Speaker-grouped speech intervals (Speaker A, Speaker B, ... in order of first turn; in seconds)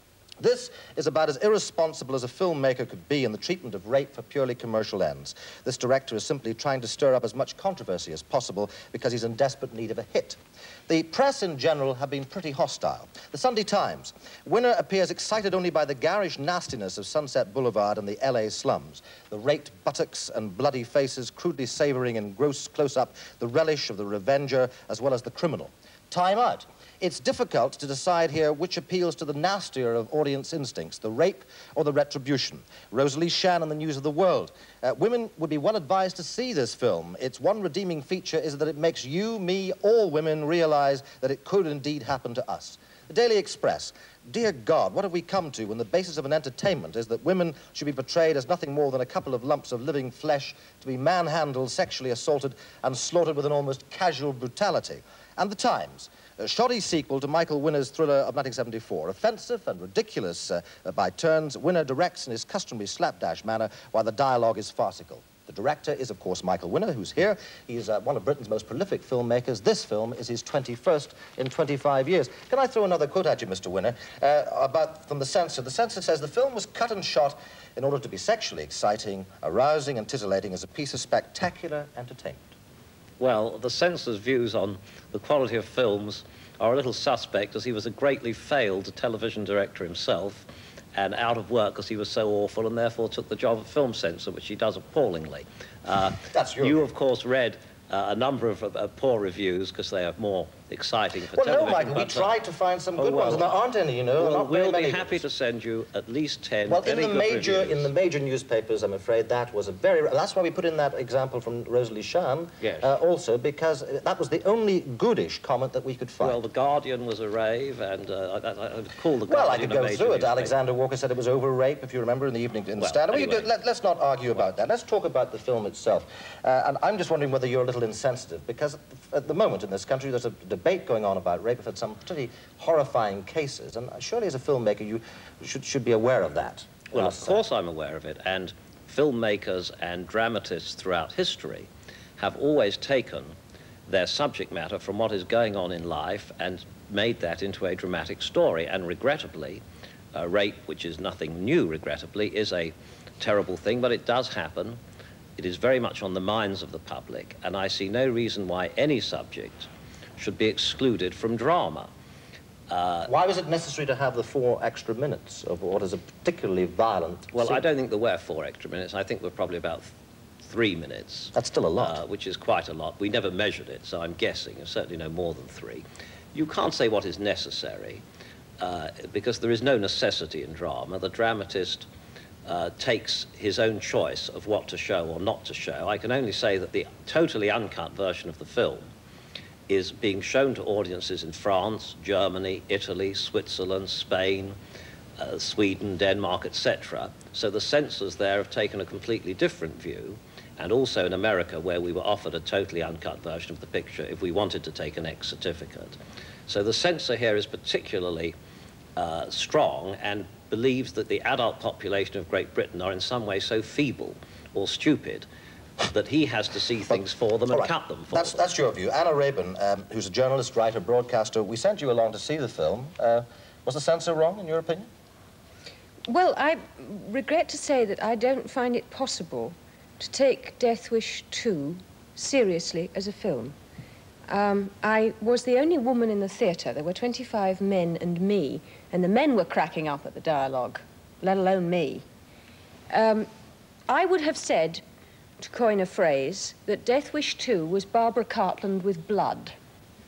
Speaker A: 0.4-82.5, 96.2-96.8, 101.3-105.2, 106.7-116.4, 119.3-137.4, 163.1-167.6, 171.3-172.0, 217.5-224.9
Speaker B: 83.2-102.3, 103.0-103.5, 104.2-107.9, 112.6-112.9, 116.2-120.5, 122.8-123.5, 136.9-143.3, 143.9-149.6, 150.2-154.8, 155.4-161.9, 162.7-163.1, 167.3-169.9, 170.4-178.0, 178.6-181.9, 182.5-188.9, 189.7-194.6, 195.2-206.0, 206.5-208.3, 209.0-215.3, 215.9-218.4
Speaker C: 226.1-233.5, 234.3-242.0, 242.9-243.3, 243.9-244.8, 245.4-249.6